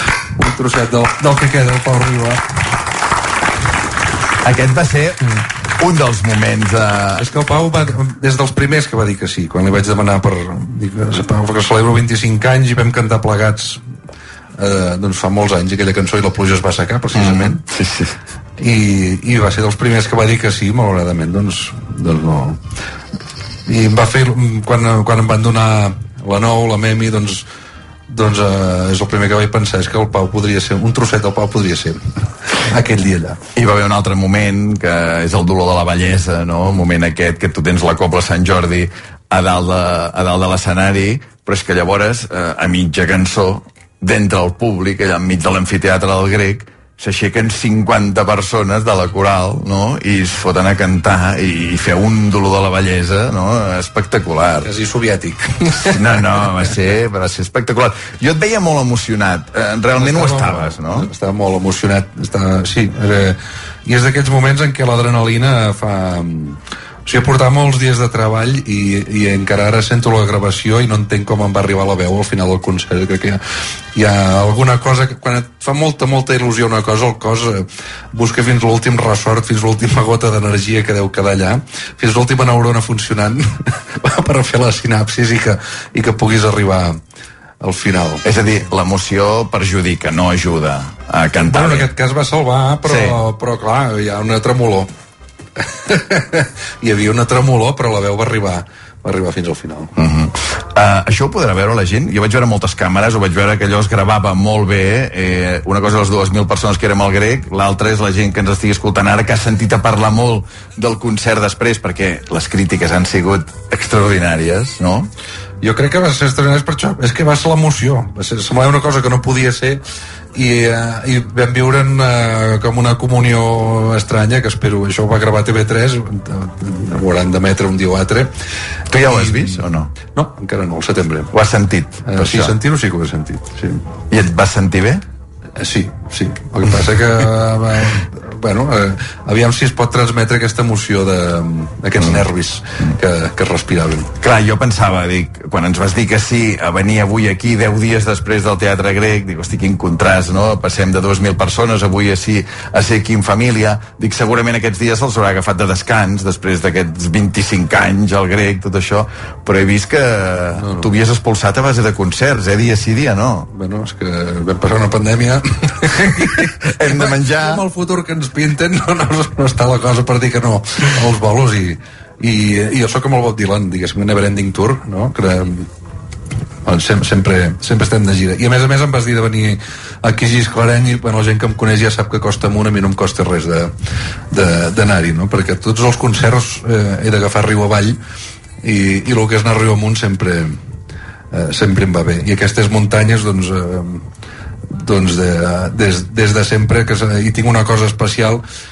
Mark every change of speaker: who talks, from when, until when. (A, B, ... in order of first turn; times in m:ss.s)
0:00.4-0:02.4 A
0:04.4-0:07.3 B
0:07.2-0:13.8 A
0:14.6-0:17.6 A
0:17.1-0:18.2 B
0:18.6-0:22.6 A
0:23.7-0:27.5 A
0:28.1-0:32.0 A
0:32.6-0:33.4 A
0:33.6-0:54.7 B
0:54.6-0:56.0 A
0:55.9-1:01.1 B
1:00.0-1:13.4 A
1:14.0-1:27.0 A
1:27.6-1:28.2 A
1:28.2-1:31.9 B
1:31.5-1:34.9 A
1:32.8-1:33.2 B
1:35.6-1:39.9 A
1:40.0-1:55.1 B
1:55.6-1:59.8 A
2:00.3-2:08.4 A
2:08.9-2:09.9 B
2:09.0-2:11.3 A
2:11.3-2:12.6 B
2:12.0-2:13.8 A
2:14.1-2:15.0 B
2:15.6-2:24.1 A
2:22.0-2:22.3 B
2:24.2-2:43.5 B
2:40.5-2:40.9 A
2:43.5-2:55.7 A
2:45.9-2:47.6 B
2:56.6-3:03.7 A
3:04.3-3:08.0 A
3:08.6-3:10.6 A
3:11.3-3:14.0 A
3:14.8-3:18.4 A